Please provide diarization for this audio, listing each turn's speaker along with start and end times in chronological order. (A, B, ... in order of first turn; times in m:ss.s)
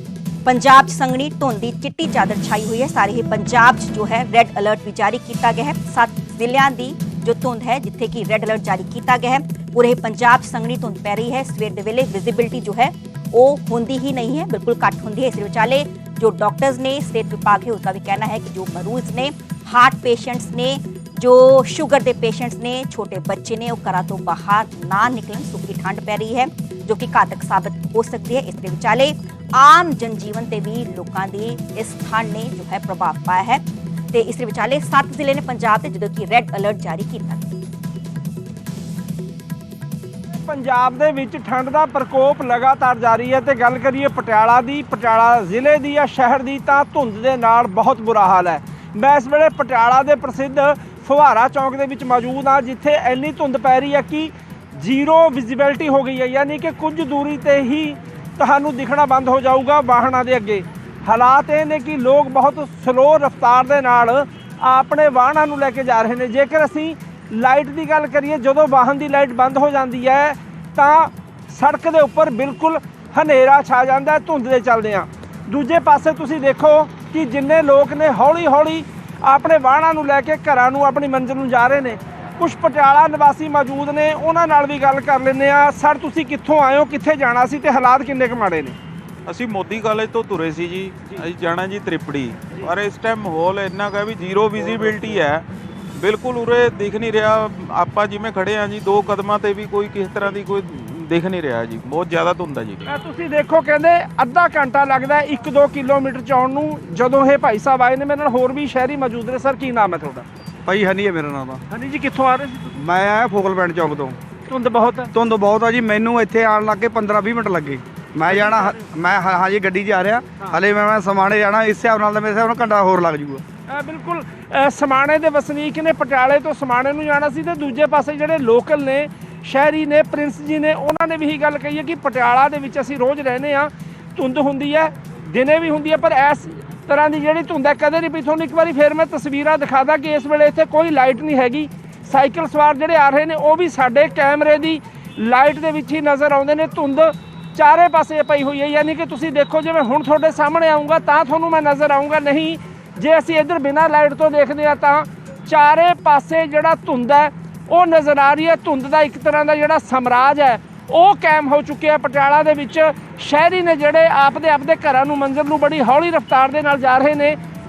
0:00.5-0:37.6 A
0:40.5-1:28.8 B
1:29.3-1:42.9 C
1:42.9-1:50.3 B
1:50.7-1:51.6 D
1:51.7-1:52.8 B
1:52.8-1:54.2 D
1:54.5-1:55.1 B
1:55.1-2:03.4 D
1:58.3-1:58.8 B
2:03.7-2:47.4 B